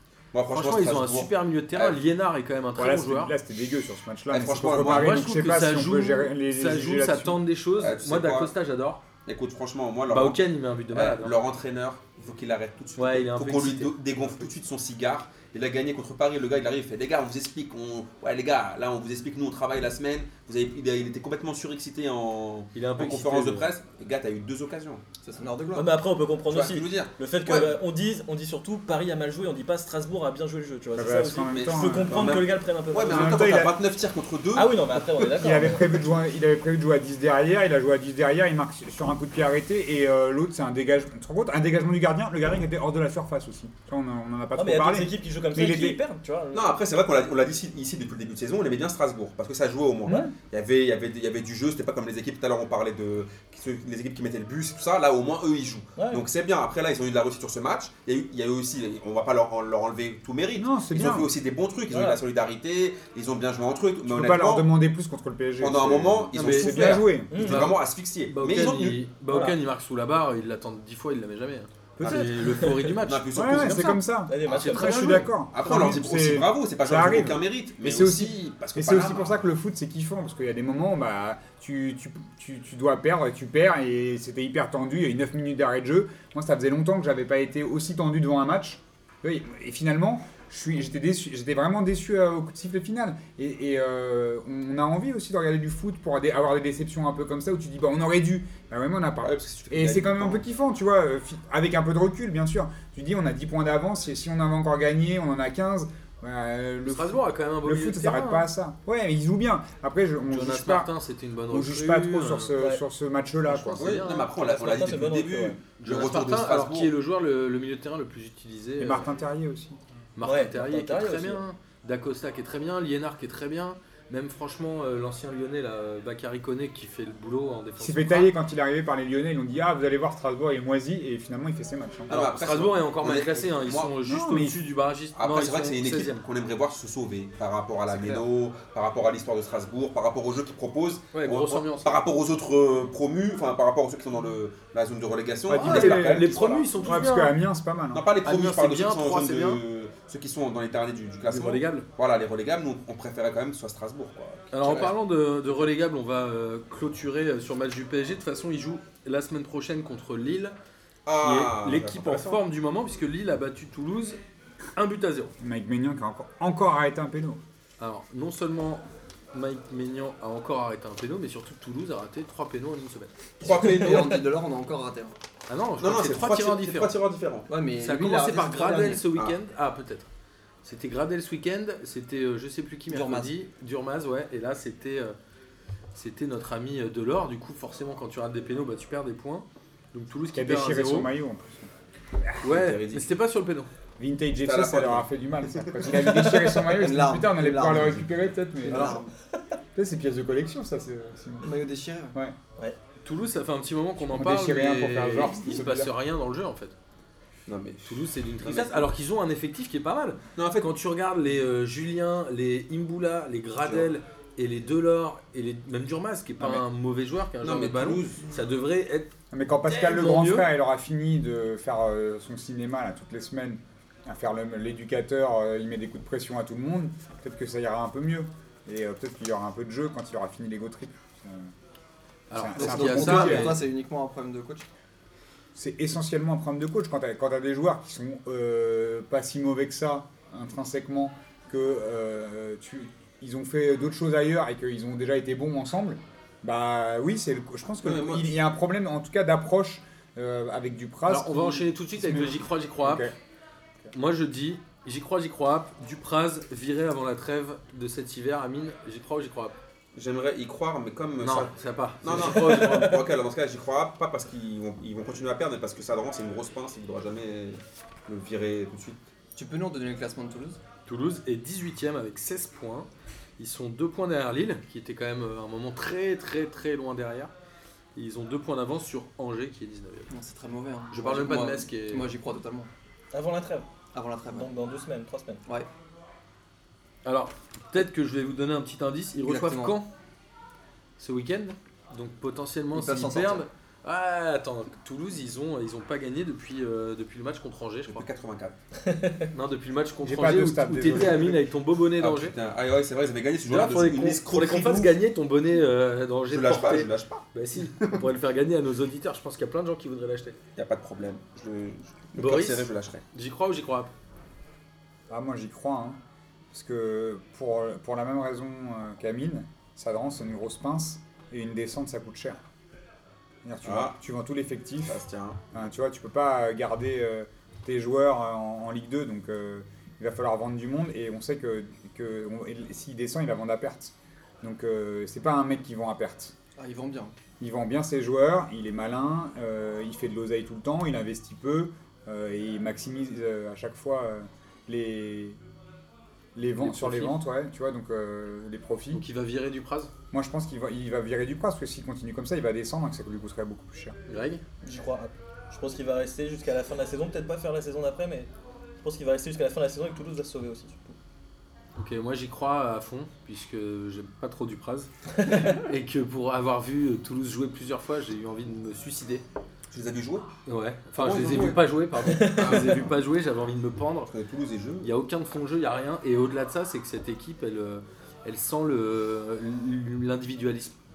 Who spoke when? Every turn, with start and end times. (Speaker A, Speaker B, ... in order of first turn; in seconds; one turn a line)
Speaker A: 0.3-2.0
Speaker B: 0.5-3.3
Speaker C: 2.8-7.4
Speaker A: 4.3-5.2
Speaker B: 4.8-9.0
Speaker A: 7.8-8.5
Speaker A: 9.2-25.0
Speaker B: 10.1-11.3
Speaker B: 13.0-13.9
Speaker B: 22.7-23.7
Speaker D: 25.2-25.9
Speaker E: 25.7-33.6
Speaker A: 26.5-27.8
Speaker C: 30.9-32.5
Speaker A: 31.5-35.4
Speaker C: 33.1-33.7
Speaker E: 34.5-35.9
Speaker C: 35.4-46.0
Speaker E: 44.5-46.7
Speaker A: 46.5-64.7
Speaker E: 50.0-50.3
Speaker E: 56.0-56.2
Speaker C: 60.6-61.3
Speaker E: 61.9-62.2
Speaker C: 64.0-67.4
Speaker A: 65.6-69.0
Speaker B: 66.3-75.3
Speaker E: 67.3-67.7
Speaker E: 69.3-69.6
Speaker C: 72.0-72.3
Speaker E: 72.5-72.8
Speaker A: 73.0-74.0
Speaker C: 73.3-110.9
Speaker E: 74.2-75.3
Speaker A: 75.5-79.5
Speaker A: 99.2-100.4
Speaker B: 106.9-108.5
Speaker B: 110.2-112.5
Speaker C: 111.5-113.8
Speaker E: 112.6-112.8
Speaker B: 113.5-114.5
Speaker A: 113.8-116.9
Speaker E: 114.4-115.6
Speaker B: 115.8-119.1
Speaker C: 118.8-119.8
Speaker B: 120.2-128.3
Speaker E: 120.2-121.4
Speaker C: 127.8-132.1
Speaker A: 132.1-133.9
Speaker B: 132.1-136.2
Speaker C: 134.0-134.6
Speaker A: 135.1-146.7
Speaker B: 141.1-142.0
Speaker C: 145.5-148.0
Speaker B: 145.6-147.3
Speaker A: 147.9-154.9
Speaker B: 148.2-149.6
Speaker B: 151.3-151.8
Speaker B: 154.5-160.6
Speaker A: 161.1-162.4
Speaker B: 161.2-164.2
Speaker B: 164.7-165.3
Speaker C: 165.4-167.4
Speaker B: 167.8-173.1
Speaker D: 173.4-175.1
Speaker A: 173.4-174.2
Speaker B: 175.5-176.9
Speaker A: 175.8-177.5
Speaker D: 177.5-179.1
Speaker B: 177.8-180.1
Speaker B: 180.6-185.2
Speaker D: 182.9-183.3
Speaker B: 185.9-191.1
Speaker C: 190.3-191.7
Speaker A: 192.4-193.1
Speaker B: 192.4-193.7
Speaker C: 194.0-199.0
Speaker A: 194.4-195.1
Speaker D: 195.8-198.1
Speaker D: 198.6-199.1
Speaker C: 199.7-201.5
Speaker D: 201.4-202.2
Speaker B: 203.0-206.7
Speaker C: 204.0-205.9
Speaker A: 207.5-208.9
Speaker B: 207.8-219.1
Speaker A: 210.3-210.7
Speaker A: 213.6-213.9
Speaker A: 217.4-218.2
Speaker C: 219.3-231.5
Speaker B: 219.7-220.4
Speaker B: 232.3-233.6
Speaker C: 232.3-233.6
Speaker D: 232.6-234.7
Speaker C: 235.5-253.1
Speaker A: 247.8-248.3
Speaker B: 251.1-253.1
Speaker B: 253.9-259.5
Speaker A: 259.9-269.0
Speaker B: 261.2-263.0
Speaker D: 269.4-270.6
Speaker B: 270.9-277.3
Speaker B: 277.9-280.1
Speaker D: 280.1-282.7
Speaker B: 280.9-282.1
Speaker E: 283.1-283.7
Speaker D: 283.9-284.5
Speaker E: 284.2-285.4
Speaker B: 287.0-289.9
Speaker D: 289.2-289.8
Speaker B: 291.0-298.0
Speaker D: 292.7-293.4
Speaker A: 297.9-298.6
Speaker E: 298.8-299.3
Speaker B: 299.3-302.3
Speaker C: 300.0-301.4
Speaker A: 302.0-304.9
Speaker B: 303.4-310.4
Speaker A: 306.3-308.0
Speaker A: 310.6-313.0
Speaker B: 312.1-313.9
Speaker C: 315.1-316.0
Speaker C: 316.5-322.4
Speaker C: 323.4-325.0
Speaker A: 323.6-323.9
Speaker A: 324.9-325.4
Speaker C: 325.5-336.3
Speaker D: 336.6-337.1
Speaker C: 337.4-345.4
Speaker C: 346.3-349.0
Speaker B: 346.6-347.2
Speaker B: 348.9-349.9
Speaker C: 350.1-354.0
Speaker B: 354.1-354.4
Speaker E: 354.6-358.3
Speaker E: 358.8-360.9
Speaker B: 361.8-369.2
Speaker E: 365.2-365.6
Speaker A: 369.7-370.3
Speaker B: 370.4-374.1
Speaker A: 370.9-372.9
Speaker E: 372.1-372.6
Speaker A: 374.1-374.9
Speaker B: 374.8-380.8